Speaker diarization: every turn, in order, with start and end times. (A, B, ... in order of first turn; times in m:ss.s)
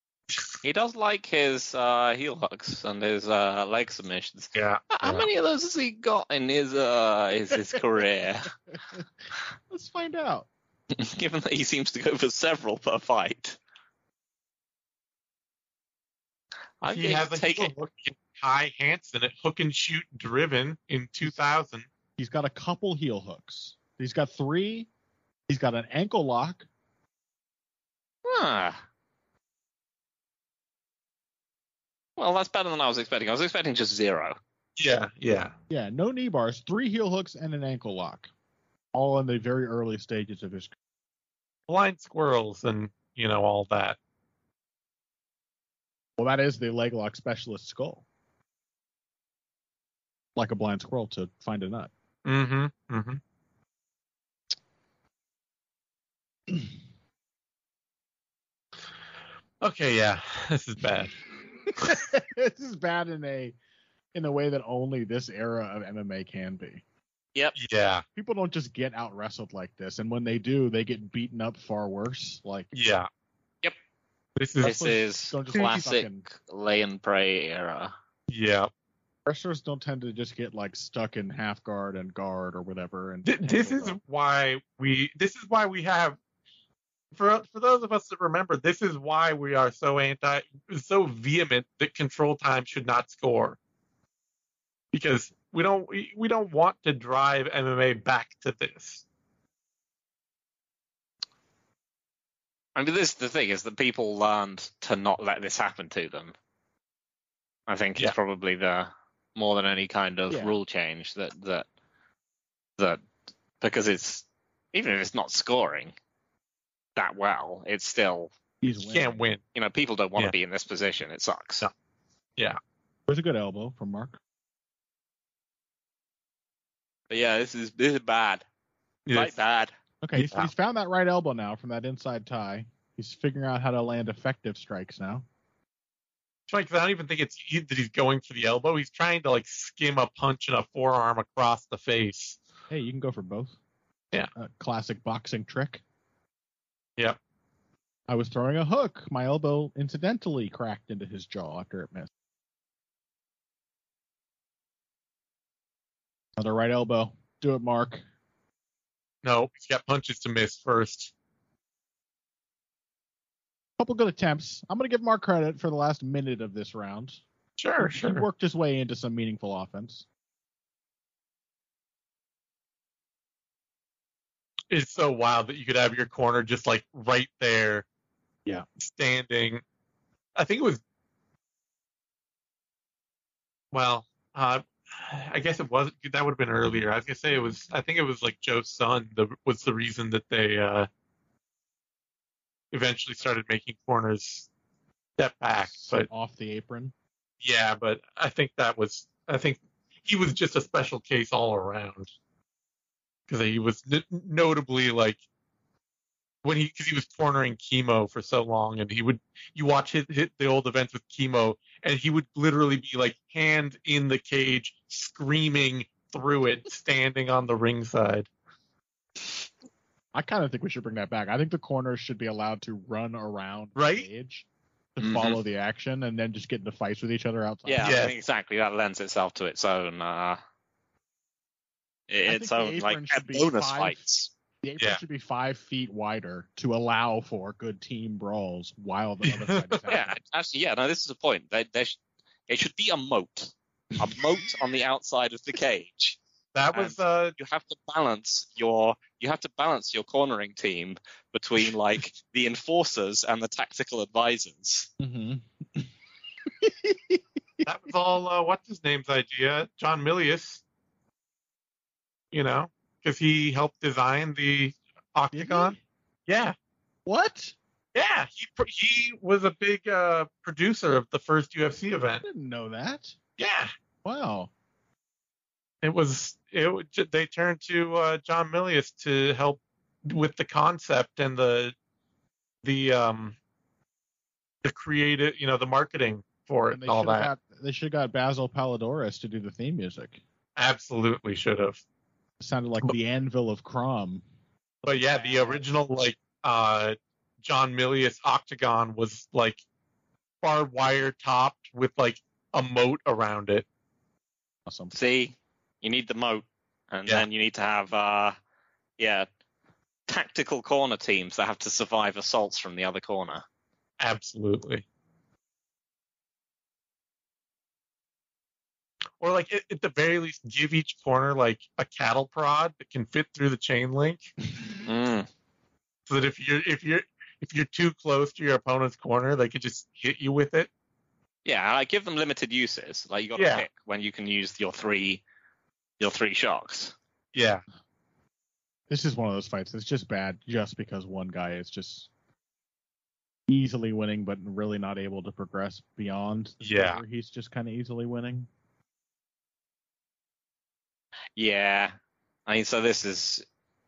0:00.6-0:08.5 A
0:04.6-0:05.3 B
0:09.7-0:10.5 C
0:10.9-0:13.6 A
0:16.8-0:17.7 A
0:16.8-0:21.9 B
0:22.2-0:24.9 C
0:25.5-0:26.7 C
0:28.2-0:28.8 A
0:32.2-0:34.4 A
0:34.8-0:35.6 B
0:35.7-0:38.3 C
0:38.9-0:40.7 C
0:41.7-0:44.0 B
0:46.2-0:48.0 C
0:50.4-0:51.9 C
0:52.2-0:53.2 B
0:59.6-1:01.2 B
1:01.8-1:03.6 C
1:04.1-1:06.8 C
1:07.6-1:08.0 B
1:08.2-1:12.7 C
1:12.7-1:13.1 B
1:14.4-1:14.9 B
1:14.6-1:16.2 C
1:14.6-1:17.9 A
1:18.3-1:18.7 B
1:19.3-1:24.0 C
1:23.2-1:26.2 B
1:27.1-1:33.6 B
1:34.9-1:39.0 B
1:42.8-1:46.4 A
1:47.7-1:51.7 A
1:50.3-1:50.6 C
1:53.6-1:55.9 A
1:57.0-1:58.3 A
1:58.6-1:59.2 C
1:58.8-1:59.4 B
1:59.5-2:01.7 A
2:03.1-2:04.2 C
2:07.1-2:08.4 A
2:09.1-2:09.4 B
2:09.1-2:09.7 A
2:10.0-2:15.2 C
2:10.2-2:10.5 B
2:16.5-2:22.4 B
2:22.7-2:23.6 C
2:24.4-2:25.8 C
2:28.1-2:32.1 C
2:36.4-2:38.0 C
2:39.2-2:41.1 B
2:43.8-2:47.2 C
2:47.6-2:48.3 B
2:47.8-2:50.0 C
2:54.7-2:57.8 B
2:58.8-2:59.6 B
3:00.4-3:00.8 B
3:03.7-3:10.9 B
3:12.7-3:14.5 B
3:15.2-3:16.1 B
3:15.7-3:16.9 C
3:17.4-3:22.1 B
3:23.3-3:25.2 B
3:26.4-3:38.3 B
3:40.1-3:48.0 C
3:43.8-3:44.1 B
3:45.0-3:45.4 A
3:47.7-3:50.4 A
3:47.8-3:48.1 B
3:52.1-3:54.3 A
3:52.3-3:54.0 C
3:54.6-4:00.2 C
3:59.2-3:59.8 B
3:59.9-4:06.2 A
4:06.5-4:07.4 B
4:06.7-4:14.9 A
4:15.0-4:15.9 C
4:16.5-4:17.6 C
4:17.6-4:20.6 B
4:22.3-4:25.8 B
4:25.3-4:25.8 C
4:26.3-4:26.6 B
4:27.1-4:27.6 C
4:27.9-4:32.2 B
4:32.2-4:33.2 C
4:33.4-4:33.7 B
4:34.0-4:34.5 C
4:35.8-4:41.8 B
4:42.6-4:43.4 B
4:44.6-4:47.3 B
4:46.7-4:50.2 C
4:50.6-4:51.8 B
4:52.4-4:54.2 C
4:54.8-4:55.6 C
4:54.8-4:59.6 B
5:00.4-5:03.6 B
5:04.7-5:04.9 C
5:04.9-5:08.4 A
5:09.0-5:09.3 A
5:10.1-5:13.4 A
5:14.0-5:14.8 B
5:19.2-5:24.3 B
5:24.9-5:25.3 A
5:26.1-5:30.7 B
5:31.4-5:35.2 A
5:33.4-5:33.7 B
5:36.0-5:37.0 A
5:37.3-5:37.6 B
5:38.9-5:42.1 C
5:43.5-5:48.5 C
5:46.6-5:47.0 B
5:51.4-5:51.9 A
5:52.5-5:53.4 A